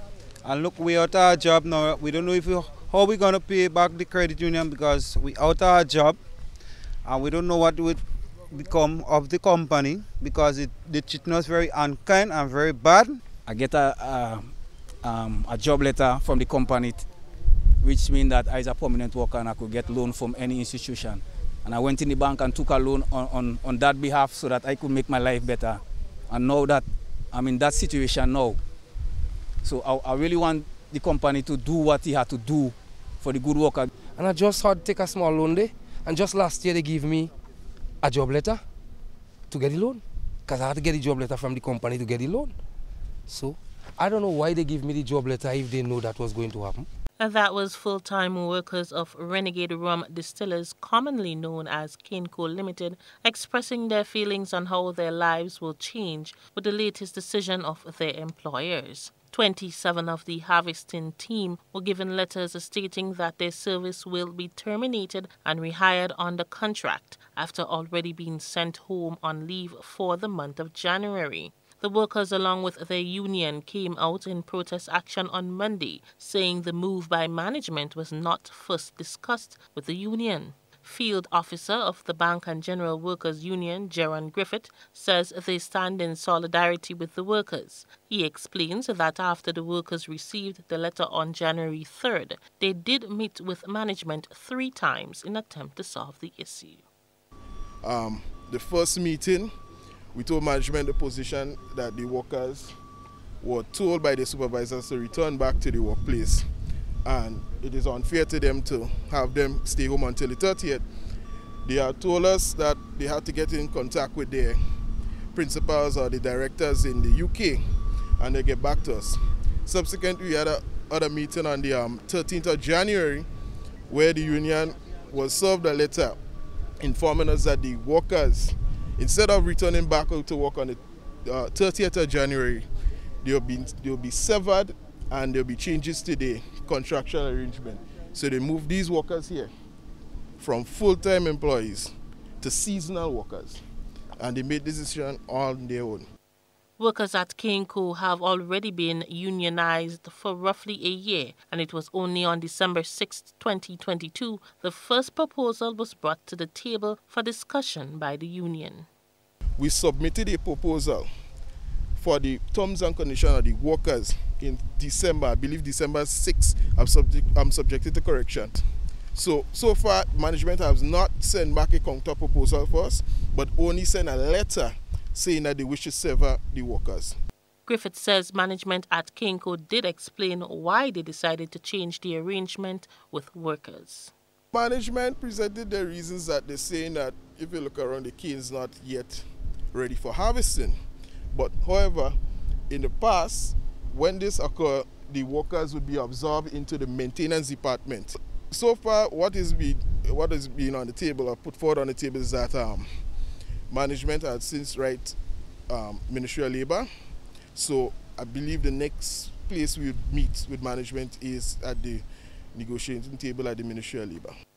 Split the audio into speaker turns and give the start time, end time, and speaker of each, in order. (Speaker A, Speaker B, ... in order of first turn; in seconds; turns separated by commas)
Speaker A: 0.4-6.2, Speaker A: 7.0-13.2, Speaker B: 13.4-17.1, Speaker B: 17.8-28.6, Speaker B: 29.6-33.9, Speaker C: 34.2-37.3, Speaker C: 38.0-38.6, Speaker C: 39.5-42.5, Speaker C: 43.3-46.9, Speaker D: 47.2-96.8, Speaker E: 97.8-99.5, Speaker E: 100.1-102.8, Speaker E: 103.4-106.5, Speaker E: 107.0-110.8, Speaker E: 111.6-114.6, Speaker E: 115.3-117.6, Speaker E: 118.2-123.3, Speaker E: 123.9-126.2, Speaker E: 126.8-132.7, Speaker E: 133.2-139.5, Speaker E: 140.4-143.6, Speaker E: 144.2-146.1, Speaker D: 146.8-158.8, Speaker E: 159.6-161.1, Speaker E: 162.0-168.6, Speaker E: 169.1-177.2, Speaker D: 177.7-184.1, Speaker E: 184.5-190.8, Speaker E: 191.3-192.2, Speaker E: 192.7-202.8, Speaker E: 203.7-205.2, Speaker E: 205.7-206.9, Speaker E: 207.5-214.3